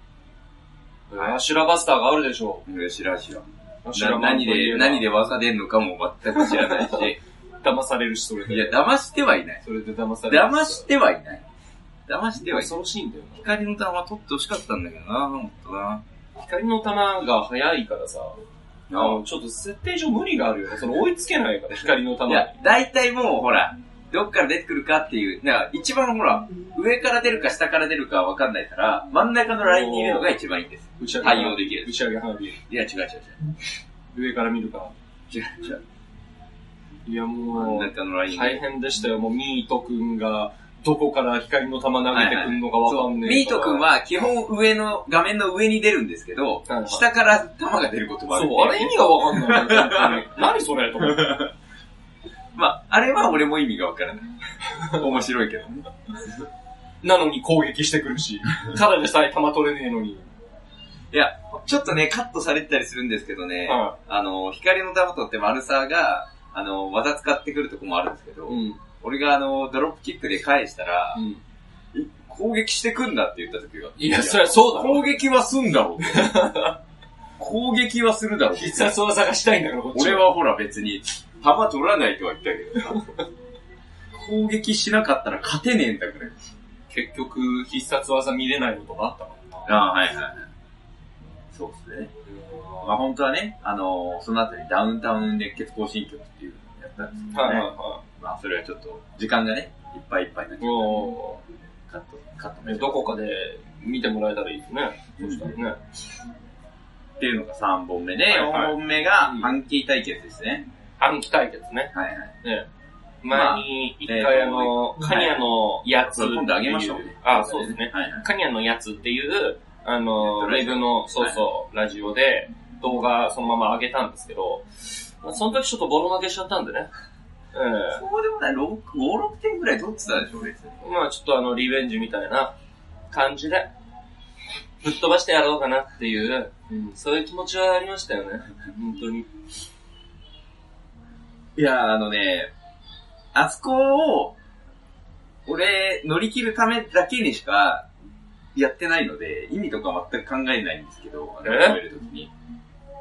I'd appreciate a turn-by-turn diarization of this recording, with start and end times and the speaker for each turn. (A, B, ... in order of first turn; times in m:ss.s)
0:01.1-0:02.6 A
0:02.6-0:07.2 B
0:03.8-0:05.0 A
0:06.3-0:08.8 A
0:08.5-0:09.6 B
0:09.6-0:10.9 A
0:10.3-0:11.4 B
0:12.1-0:12.7 B
0:12.5-0:13.5 A
0:13.4-0:16.0 B
0:16.4-0:18.4 A
0:18.9-0:19.2 B
0:18.9-0:22.5 A
0:22.3-0:32.0 B
0:29.6-0:30.3 A
0:31.0-0:32.6 A
0:32.7-0:33.4 B
0:34.1-0:34.9 A
0:35.3-0:35.8 B
0:37.0-0:43.8 A
0:37.5-0:38.6 B
0:42.1-0:50.3 B
0:46.7-0:47.0 A
0:48.3-0:51.4 A
0:51.0-0:51.5 B
0:52.5-0:56.3 B
0:57.0-1:00.3 A
1:01.1-1:11.2 B
1:03.6-1:04.0 A
1:08.5-1:08.8 A
1:11.1-1:11.4 A
1:11.9-1:16.5 B
1:14.0-1:15.1 A
1:16.0-1:16.8 A
1:17.4-1:19.0 B
1:18.5-1:20.3 A
1:19.9-1:23.0 B
1:22.9-1:23.2 A
1:24.1-1:26.4 B
1:26.9-1:29.8 A
1:29.6-1:30.4 B
1:31.5-1:32.1 B
1:32.3-1:32.9 A
1:32.8-1:41.2 B
1:37.3-1:38.0 A
1:40.6-1:41.4 A
1:41.9-1:43.1 B
1:42.7-1:45.8 A
1:45.2-1:45.6 B
1:47.2-1:50.6 B
1:48.3-1:49.5 A
1:51.0-1:52.7 A
1:51.9-1:52.3 B
1:53.2-2:04.7 A
1:53.3-1:55.4 B
1:56.0-1:58.2 B
2:00.2-2:01.4 B
2:05.2-2:06.9 A
2:07.5-2:08.0 A
2:07.9-2:10.8 B
2:10.8-2:12.5 A
2:13.1-2:13.7 A
2:14.8-2:19.3 A
2:21.6-2:22.5 B
2:23.3-2:24.4 B
2:25.4-2:27.9 B
2:28.6-2:32.3 B
2:31.4-2:31.8 A